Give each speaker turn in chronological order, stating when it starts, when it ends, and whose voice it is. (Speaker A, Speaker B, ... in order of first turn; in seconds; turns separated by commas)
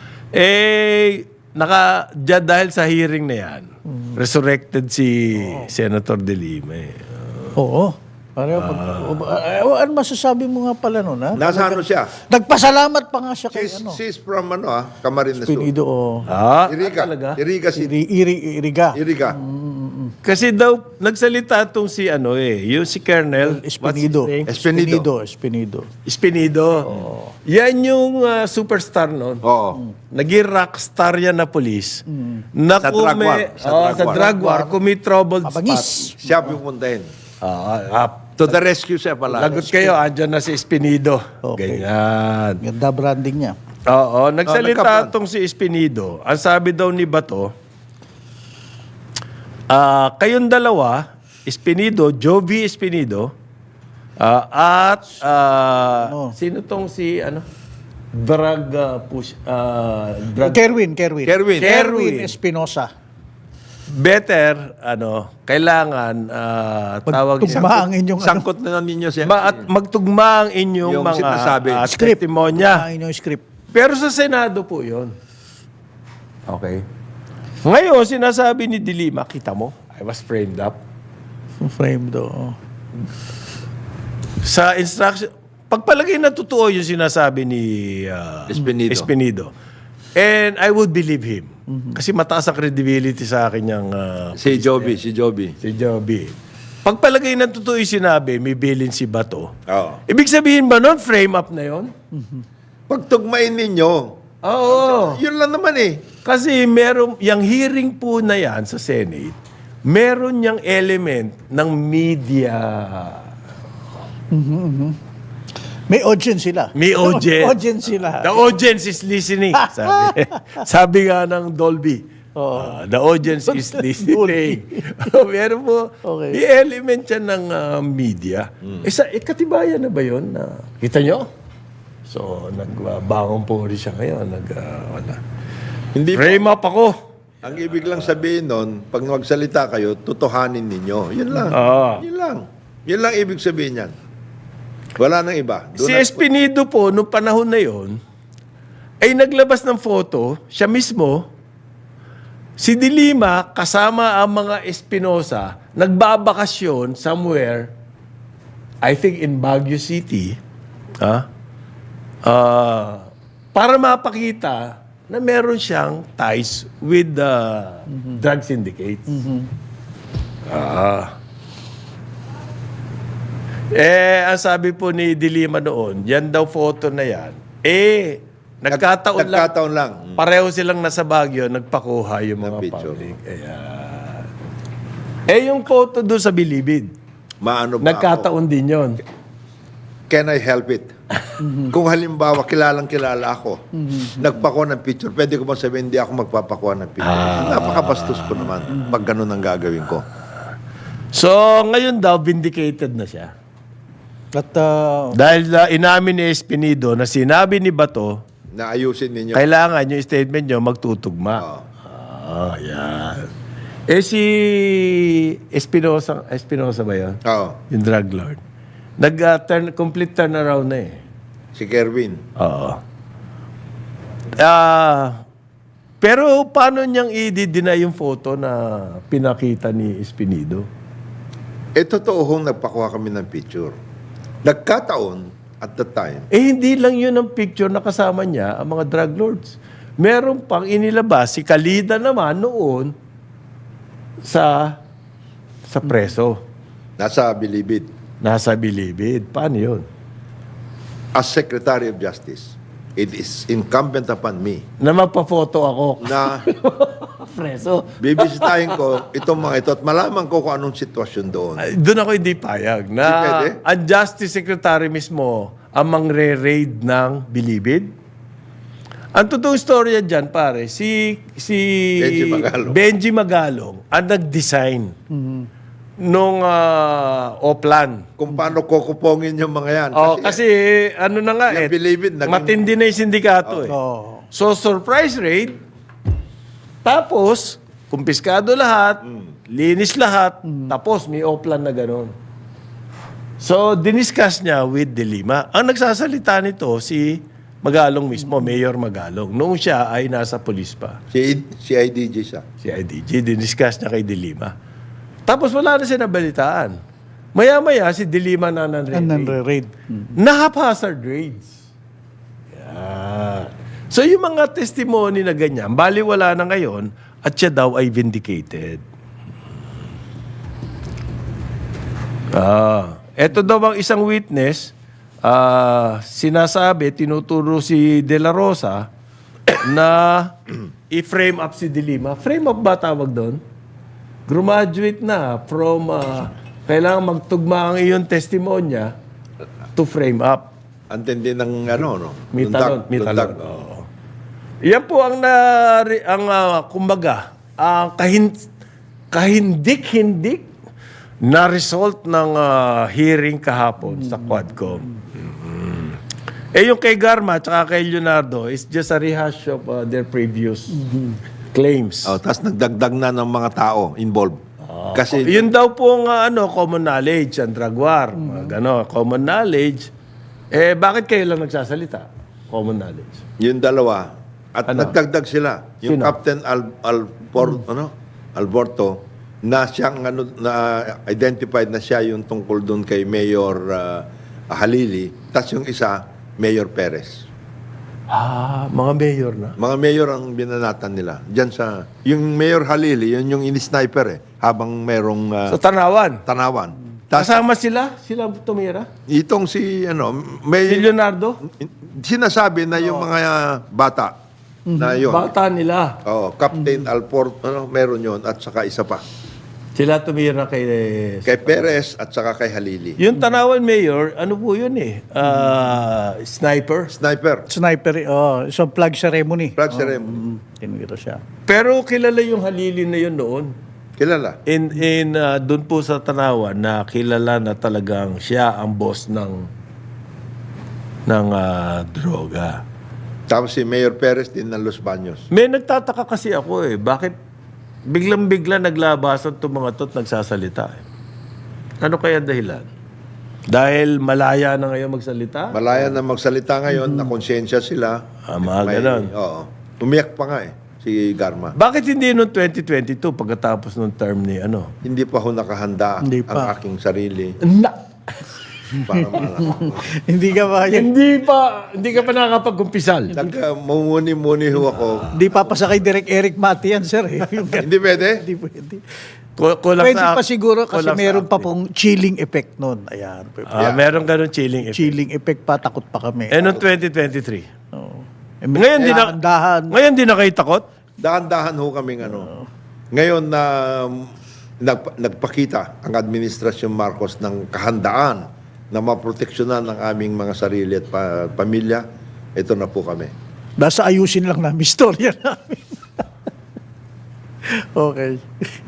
Speaker A: 0.3-7.5, Speaker B: 5.3-5.7, Speaker B: 7.6-14.0, Speaker A: 8.5-9.2, Speaker C: 11.3-12.1, Speaker C: 13.5-15.7, Speaker B: 15.3-16.3, Speaker A: 16.2-17.4, Speaker C: 16.6-17.9, Speaker B: 17.7-20.1, Speaker C: 18.9-19.4, Speaker A: 20.2-24.5, Speaker B: 23.4-25.9, Speaker C: 24.4-25.1, Speaker A: 26.0-26.9, Speaker C: 26.9-27.1, Speaker B: 26.9-27.3, Speaker A: 27.5-29.4, Speaker C: 29.4-29.8, Speaker A: 30.1-36.1, Speaker B: 32.1-32.4, Speaker C: 32.8-34.3, Speaker B: 33.9-34.8, Speaker B: 35.4-36.6, Speaker C: 36.2-37.1, Speaker A: 37.4-38.3, Speaker C: 38.4-39.9, Speaker A: 39.3-42.6, Speaker B: 39.5-39.9, Speaker B: 41.4-41.9, Speaker B: 42.6-43.5, Speaker A: 43.9-47.5, Speaker C: 44.5-45.1, Speaker A: 49.7-53.3, Speaker A: 54.2-57.5, Speaker B: 55.9-56.3, Speaker A: 58.1-60.8, Speaker B: 60.4-62.9, Speaker C: 61.2-61.7, Speaker A: 61.6-62.3, Speaker A: 63.9-67.9, Speaker B: 67.0-68.4, Speaker C: 67.5-69.7, Speaker A: 69.2-72.8, Speaker C: 70.8-71.9, Speaker B: 71.9-73.4, Speaker A: 73.7-75.1, Speaker A: 76.5-76.8, Speaker A: 77.6-80.8, Speaker B: 81.6-82.5, Speaker A: 84.4-89.5, Speaker C: 88.5-89.1, Speaker A: 90.2-95.0, Speaker B: 91.7-92.0, Speaker C: 94.3-95.5, Speaker A: 95.6-99.5, Speaker C: 99.7-100.0, Speaker A: 100.1-101.9, Speaker B: 102.1-102.4, Speaker C: 102.9-106.0, Speaker A: 104.4-105.2, Speaker A: 106.2-113.3, Speaker B: 114.3-115.0, Speaker B: 115.9-118.5, Speaker A: 116.7-117.6, Speaker A: 118.2-131.3, Speaker B: 119.5-120.3, Speaker B: 122.3-122.8, Speaker B: 123.3-124.6, Speaker B: 126.0-126.4, Speaker C: 128.6-128.9, Speaker A: 132.1-135.2, Speaker C: 135.9-136.4, Speaker A: 136.1-137.0, Speaker C: 137.4-143.9, Speaker A: 137.8-138.2, Speaker A: 141.4-142.0, Speaker C: 144.9-146.2, Speaker A: 145.8-148.0, Speaker A: 149.0-151.3, Speaker A: 152.6-157.7, Speaker A: 158.8-160.4, Speaker A: 161.0-161.2, Speaker A: 162.2-169.3, Speaker B: 169.1-169.5, Speaker A: 170.5-171.1, Speaker A: 173.7-179.5, Speaker C: 178.7-180.2, Speaker A: 180.2-184.3, Speaker C: 182.4-183.1, Speaker A: 185.3-186.9, Speaker C: 187.4-188.3, Speaker A: 187.8-189.0, Speaker C: 190.1-190.9, Speaker B: 191.4-191.7, Speaker C: 191.6-200.0, Speaker B: 193.8-194.3, Speaker A: 197.0-198.9, Speaker A: 201.1-203.3, Speaker B: 204.3-205.2, Speaker A: 205.1-208.2, Speaker C: 208.5-209.4, Speaker A: 209.3-213.3, Speaker C: 211.4-211.6, Speaker A: 213.9-218.4, Speaker C: 217.2-217.6, Speaker A: 219.0-221.0, Speaker C: 221.5-222.2, Speaker A: 222.4-222.8, Speaker A: 224.4-225.2, Speaker A: 226.0-230.7, Speaker C: 231.8-233.8, Speaker C: 234.4-236.3, Speaker A: 236.3-242.9, Speaker A: 244.2-244.8, Speaker A: 245.7-246.4, Speaker C: 247.0-247.9, Speaker A: 248.2-249.8, Speaker C: 251.1-254.6, Speaker A: 254.8-259.0, Speaker C: 256.0-256.4, Speaker C: 258.0-261.6, Speaker A: 261.6-267.9, Speaker C: 263.0-263.6, Speaker A: 269.1-274.9, Speaker C: 272.0-272.8, Speaker B: 275.1-275.5, Speaker A: 276.0-278.1, Speaker C: 278.2-280.4, Speaker A: 279.9-283.8, Speaker C: 281.5-282.6, Speaker B: 283.7-284.2, Speaker A: 284.3-285.6, Speaker A: 286.8-292.1, Speaker B: 290.5-290.7, Speaker A: 293.4-301.0, Speaker C: 301.1-302.4, Speaker A: 302.6-304.5, Speaker A: 305.2-306.8, Speaker A: 307.3-309.4, Speaker B: 308.9-310.1, Speaker A: 310.1-311.6, Speaker A: 312.5-318.8, Speaker A: 322.3-328.9, Speaker A: 329.5-333.4, Speaker A: 334.3-338.9, Speaker A: 339.8-340.5, Speaker C: 340.9-343.5, Speaker A: 342.3-343.9, Speaker A: 344.6-348.4, Speaker A: 349.1-350.5, Speaker A: 351.2-356.0, Speaker B: 353.8-354.9, Speaker A: 356.5-360.8, Speaker B: 360.7-361.2, Speaker A: 361.5-362.2, Speaker C: 362.0-364.4, Speaker A: 364.6-369.9, Speaker C: 364.9-365.5, Speaker B: 368.2-368.5, Speaker A: 370.5-373.2, Speaker C: 373.4-387.3, Speaker A: 374.7-374.9, Speaker A: 375.8-376.1, Speaker A: 388.1-389.6, Speaker C: 389.6-395.6, Speaker A: 395.5-396.2, Speaker C: 396.2-397.4, Speaker A: 397.1-398.9, Speaker C: 399.1-400.9, Speaker A: 400.6-401.4, Speaker C: 401.4-404.1, Speaker B: 404.7-405.1, Speaker C: 404.8-405.3, Speaker A: 405.0-406.0, Speaker C: 406.0-409.0, Speaker B: 406.6-406.9, Speaker A: 409.8-411.7, Speaker C: 411.2-413.0, Speaker A: 413.0-416.9, Speaker B: 415.2-415.5, Speaker C: 416.9-417.5, Speaker B: 417.5-421.2, Speaker C: 419.6-420.2, Speaker A: 421.5-423.5, Speaker C: 424.0-424.4, Speaker A: 424.5-429.5, Speaker A: 431.1-432.6, Speaker C: 433.3-435.2, Speaker A: 435.3-437.1, Speaker A: 437.9-440.8, Speaker A: 441.8-442.7, Speaker A: 443.5-445.9, Speaker C: 445.5-451.6, Speaker B: 446.7-447.1, Speaker A: 448.3-449.1, Speaker A: 451.6-454.7, Speaker C: 454.8-457.4, Speaker B: 456.0-456.5, Speaker A: 457.4-457.8, Speaker B: 458.7-460.9, Speaker C: 458.7-459.8, Speaker A: 460.7-463.2, Speaker C: 463.1-465.1, Speaker B: 465.1-468.8, Speaker C: 467.6-468.2, Speaker A: 469.4-471.4, Speaker B: 469.8-473.7, Speaker A: 473.5-475.0, Speaker C: 473.6-473.8, Speaker B: 474.7-476.6, Speaker A: 476.3-477.5, Speaker B: 477.7-479.7, Speaker A: 478.5-479.1, Speaker A: 479.7-480.6, Speaker C: 481.0-482.3, Speaker B: 482.0-482.4, Speaker C: 482.9-484.1, Speaker C: 484.6-491.8, Speaker C: 492.4-493.1, Speaker B: 493.6-495.7, Speaker B: 497.5-498.2